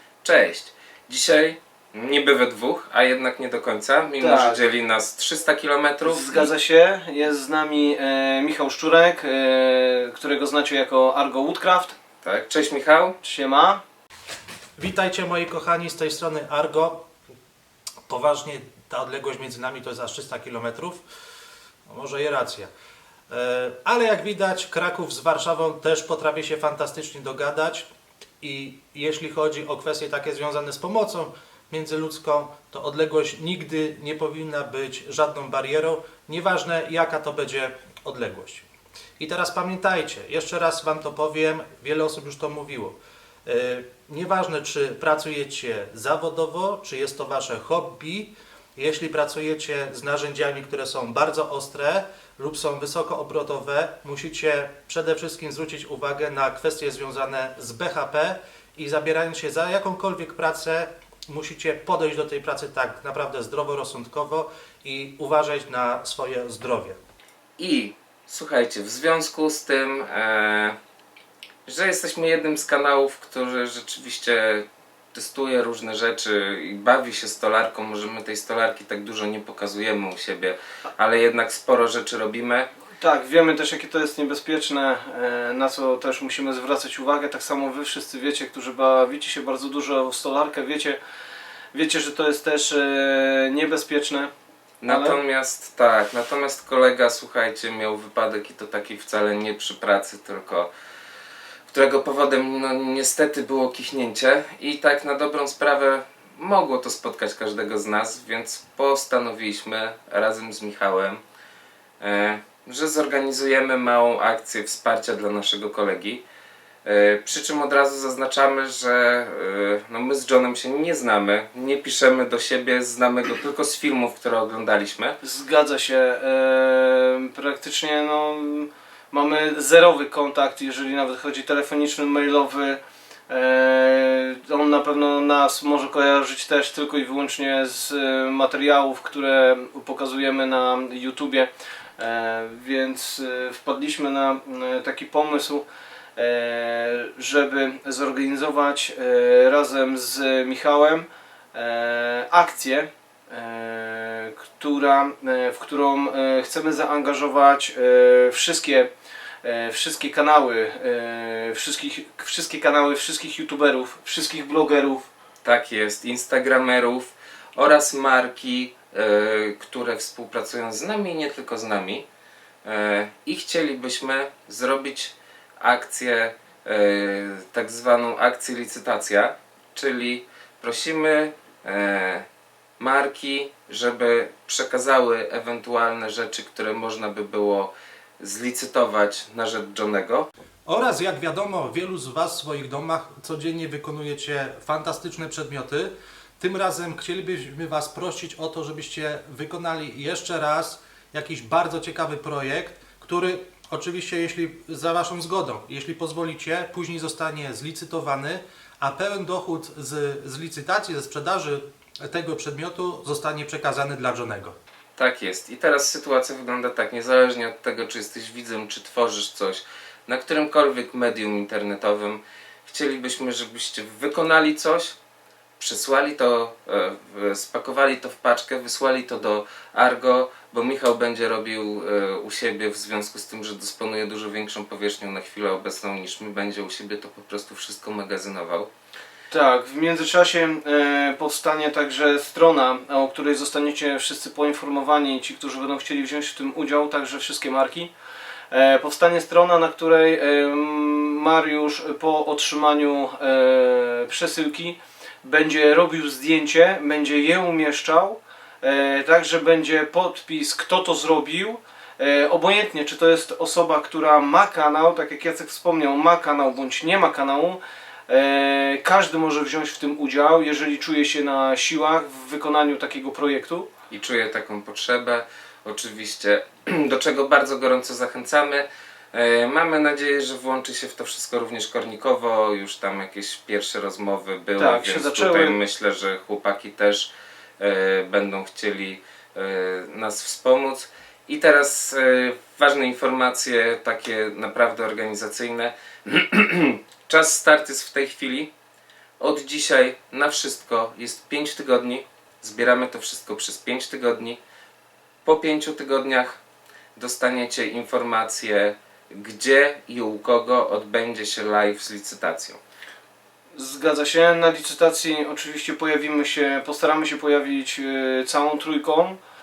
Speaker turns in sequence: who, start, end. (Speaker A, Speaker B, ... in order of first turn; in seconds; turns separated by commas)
Speaker A: 0.2-6.5, Speaker B: 4.2-4.6, Speaker B: 6.0-12.0, Speaker A: 12.2-13.2, Speaker B: 13.2-13.8, Speaker C: 14.8-17.1, Speaker C: 18.1-21.0, Speaker C: 21.9-22.7, Speaker C: 23.3-27.9, Speaker C: 28.4-38.7, Speaker C: 39.2-67.0, Speaker A: 67.6-70.8, Speaker A: 71.7-82.7, Speaker B: 83.0-91.0, Speaker B: 91.7-94.3, Speaker A: 94.8-100.7, Speaker B: 94.9-95.2, Speaker A: 101.7-111.2, Speaker A: 112.0-116.2, Speaker A: 116.8-125.2, Speaker B: 125.2-145.6, Speaker B: 146.2-158.9, Speaker B: 159.4-165.1, Speaker A: 165.4-172.1, Speaker A: 172.7-182.3, Speaker A: 182.8-190.3, Speaker C: 190.7-214.6, Speaker A: 215.0-225.0, Speaker A: 225.6-238.7, Speaker B: 239.3-247.9, Speaker B: 248.5-273.7, Speaker A: 273.9-298.5, Speaker B: 284.6-285.6, Speaker A: 299.2-304.4, Speaker A: 305.2-306.4, Speaker A: 307.0-312.6, Speaker B: 313.6-319.2